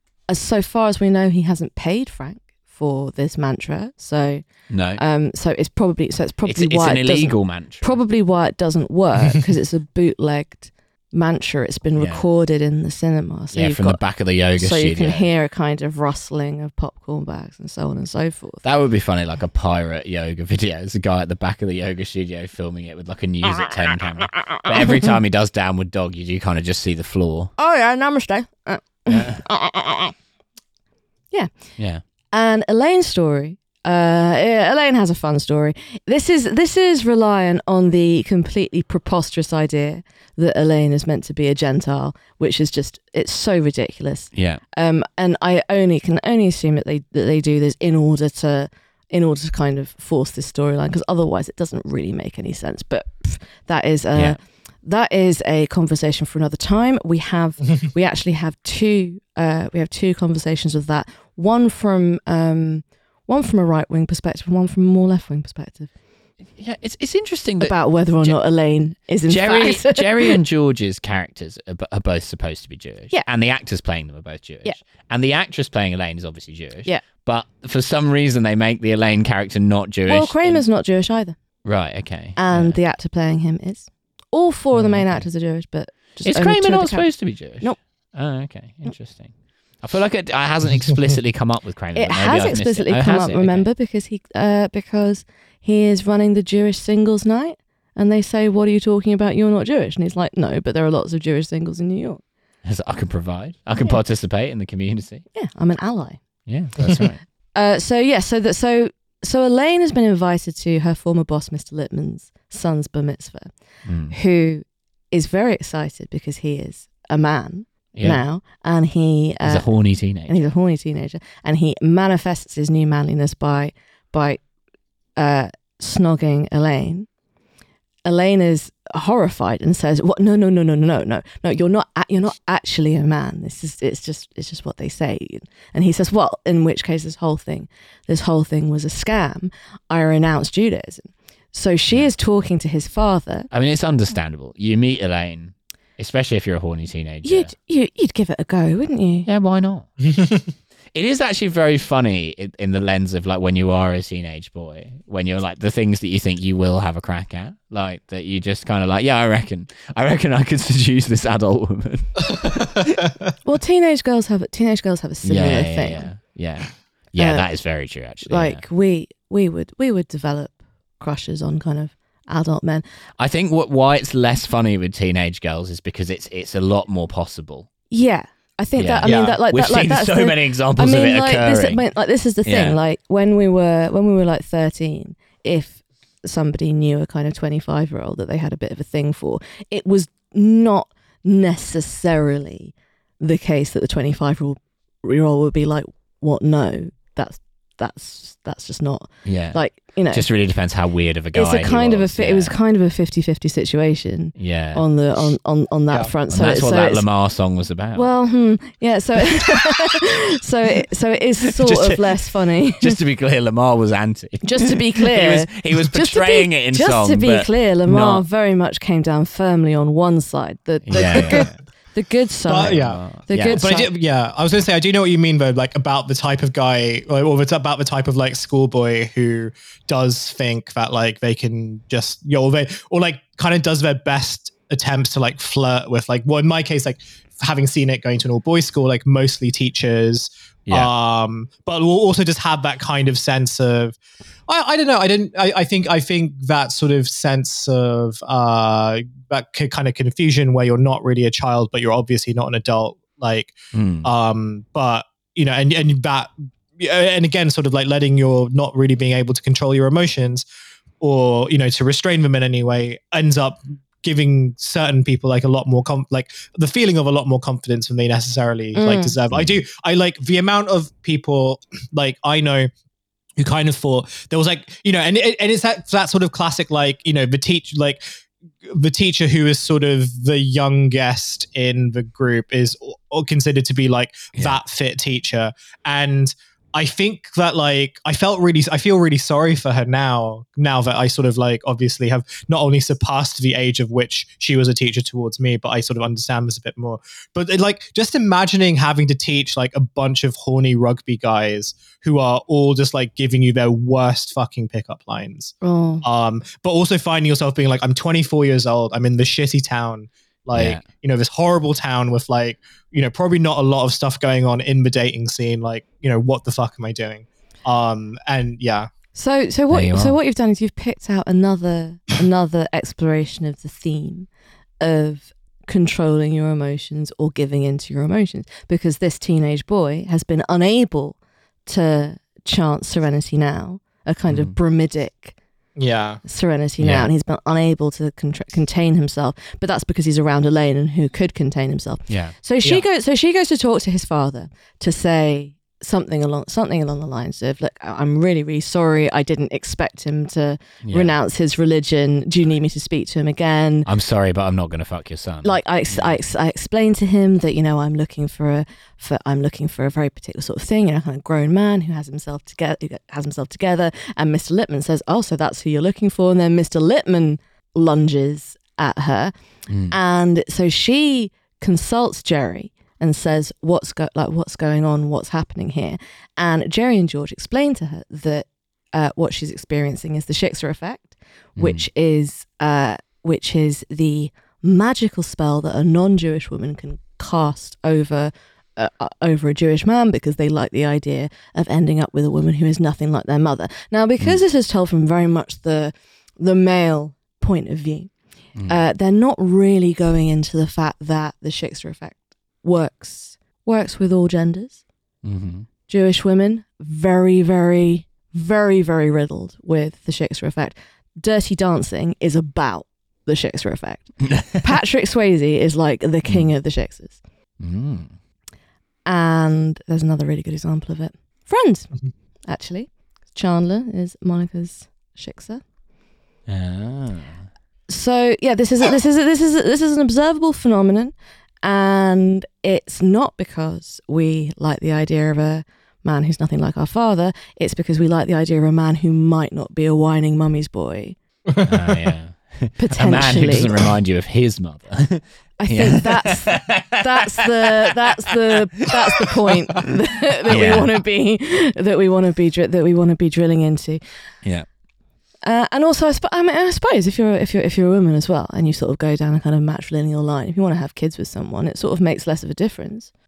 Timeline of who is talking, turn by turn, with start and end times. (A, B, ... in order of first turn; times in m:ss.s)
0:00.3-0:04.4 A
0:04.7-0:05.0 B
0:05.0-0:14.0 A
0:06.5-0:08.0 B
0:12.0-0:12.2 B
0:13.5-0:15.3 B
0:14.6-0:18.6 A
0:18.6-0:27.5 B
0:24.6-0:25.2 A
0:27.6-0:30.1 A
0:29.1-0:29.4 B
0:32.3-1:05.9 A
0:44.3-0:44.6 B
1:06.6-1:08.4 B
1:07.6-1:10.4 A
1:09.3-1:20.6 B
1:20.1-1:21.4 A
1:21.6-1:22.8 B
1:22.4-1:27.8 A
1:24.7-1:25.3 B
1:26.2-1:33.7 B
1:32.0-1:42.2 A
1:42.6-1:45.2 B
1:45.3-1:46.2 A
1:46.5-1:47.2 B
1:46.8-1:47.1 C
1:47.5-1:53.5 A
1:53.9-1:54.2 B
1:54.1-1:59.7 A
1:58.0-1:58.2 B
1:59.4-2:00.4 B
2:00.3-2:04.4 A
2:05.2-2:07.1 A
2:08.0-2:23.5 A
2:23.5-2:27.5 B
2:27.2-2:29.3 A
2:29.3-2:30.0 B
2:30.9-2:43.0 B
2:42.4-2:43.1 C
2:43.4-2:46.1 A
2:45.2-2:48.6 B
2:47.2-2:47.5 A
2:48.3-2:52.8 A
2:53.2-2:57.7 B
2:57.9-3:20.2 A
2:58.8-3:01.8 B
2:59.0-2:59.4 C
3:02.5-3:02.8 B
3:19.2-3:19.6 B
3:20.1-3:22.6 B
3:21.4-3:27.0 A
3:24.4-3:24.8 B
3:26.3-3:28.1 B
3:28.0-3:33.0 A
3:29.3-3:30.0 B
3:31.6-3:32.1 B
3:32.8-3:38.2 B
3:34.4-3:43.9 A
3:40.9-3:41.6 B
3:40.9-3:41.5 C
3:42.5-4:20.4 C
3:42.6-3:43.6 B
4:13.7-4:14.1 B
4:21.0-4:32.7 C
4:28.8-4:29.2 A
4:29.3-4:29.6 B
4:33.4-4:38.0 C
4:38.6-5:18.9 C
5:05.6-5:06.0 A
5:10.5-5:10.8 B
5:19.1-5:24.3 A
5:19.7-5:20.2 B
5:24.8-5:35.4 A
5:34.3-5:34.6 B
5:35.8-5:36.2 C
5:36.2-5:53.9 A
5:36.8-5:37.1 B
5:42.1-5:42.4 B
5:50.8-5:51.1 B
5:53.9-5:56.2 B
5:55.4-6:09.3 A
6:09.7-6:10.0 B
6:09.9-6:38.1 A
6:21.6-6:21.8 B
6:38.7-6:44.8 A
6:45.2-6:45.7 B
6:45.9-6:57.2 A
6:54.3-6:54.6 B
6:57.6-6:58.1 B
6:59.1-7:01.9 A
7:02.5-7:05.6 A
7:06.5-7:07.4 B
7:07.9-7:21.2 A
7:21.5-7:22.1 C
7:21.6-7:29.0 B
7:22.8-7:23.8 A
7:25.6-7:34.0 A
7:30.5-7:31.0 B
7:35.4-7:43.1 A